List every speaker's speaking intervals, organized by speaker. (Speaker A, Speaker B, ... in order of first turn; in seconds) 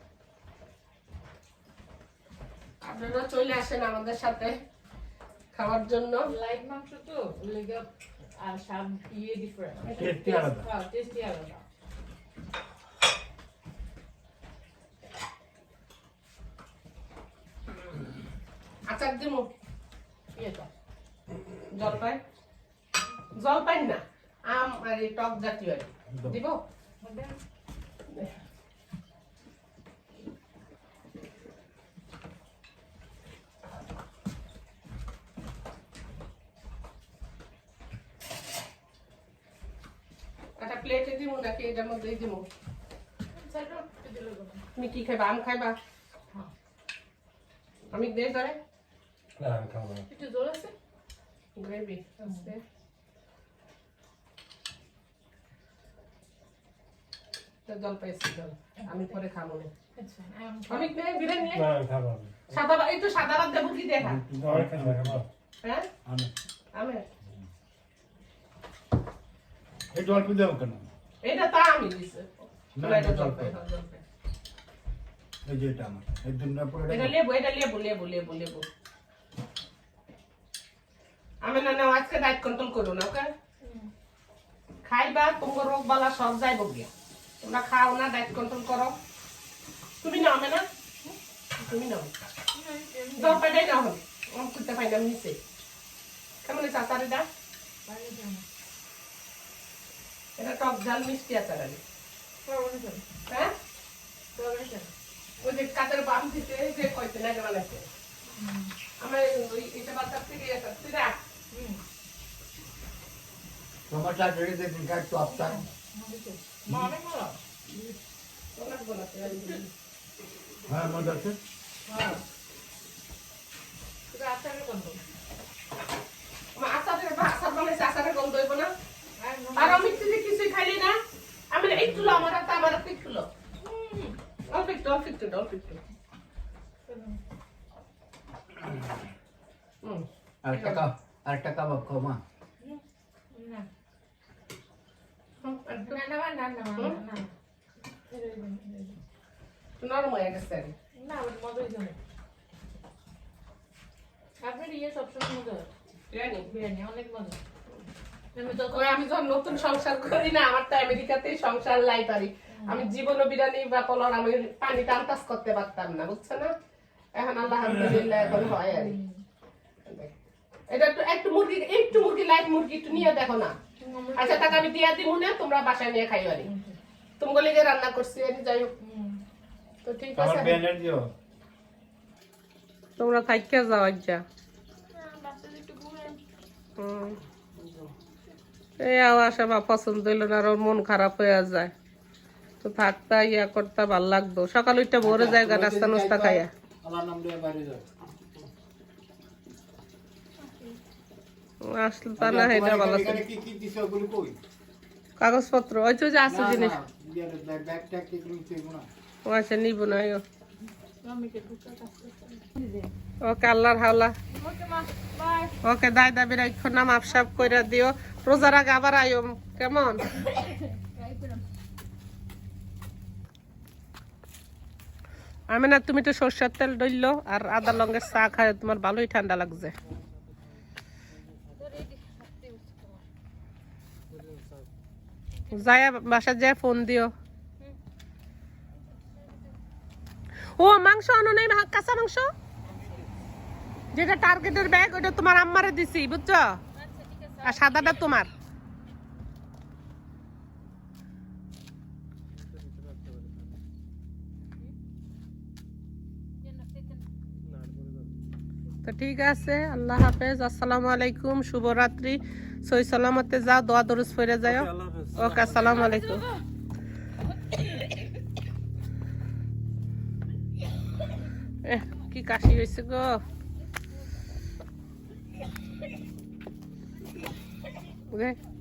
Speaker A: 2.8-4.6, 5.5-6.3, 18.9-19.5, 21.7-22.2, 23.3-26.6, 40.6-42.5, 44.8-45.8, 47.9-48.6, 51.5-52.6, 57.6-59.7, 60.7-61.7, 62.5-64.2, 65.6-65.9, 66.7-67.0, 71.2-74.0, 76.9-78.6, 81.4-83.3, 84.8-86.9, 87.4-89.0, 90.0-90.6, 91.6-92.1, 93.2-95.4, 96.4-97.3, 100.4-101.8, 105.4-107.9, 109.0-111.2, 118.5-119.7, 126.5-128.7, 129.6-131.0, 131.5-133.3, 134.5-135.8, 139.8-140.8, 145.4-146.0, 149.8-150.7, 156.1-156.5, 158.7-166.5, 167.1-168.9, 169.8-170.1, 170.7-173.6, 174.1-176.5, 177.2-178.7, 179.8-180.7, 183.0-184.2, 186.8-187.2, 188.8-191.7, 192.6-196.5, 201.6-203.2, 205.2-206.8, 209.2-210.2, 213.2-214.1, 215.6-220.2, 225.5-229.7, 235.5-237.1, 240.5-242.3, 243.9-246.6, 247.4-248.3, 258.8-266.2, 271.6-273.2, 278.1-278.4
Speaker B: 6.2-11.6, 20.3-20.7, 27.0-27.4, 43.3-44.6, 50.1-50.7, 52.2-52.5, 60.0-61.5, 83.6-83.9, 92.5-93.4, 97.8-98.4, 102.5-103.0, 104.3-104.9, 108.4-108.7, 111.5-111.8, 115.2-117.4, 121.9-122.2, 124.1-125.0, 129.2-130.2, 133.6-134.2, 136.9-137.2, 143.3-143.7, 145.8-147.3, 148.1-149.0, 150.9-152.0, 154.4-155.7, 156.4-157.4, 158.3-158.9, 162.5-162.8, 168.6-169.2, 173.8-174.6, 176.4-176.8, 178.8-179.2, 184.9-186.2, 200.4-200.8, 211.0-212.9, 214.3-215.5, 220.2-221.4, 231.6-233.1, 246.7-247.8, 256.4-257.0, 265.9-266.2
Speaker C: 9.9-10.7, 64.0-65.2, 66.0-66.3, 69.9-70.9, 72.7-73.5, 75.5-77.2, 113.9-115.6, 120.7-121.4, 140.4-142.2, 180.1-181.1, 195.0-197.8, 202.2-204.4, 206.2-208.9
Speaker D: 49.4-50.1, 61.5-62.6, 64.4-65.2, 252.7-253.2, 257.5-257.9, 264.4-265.8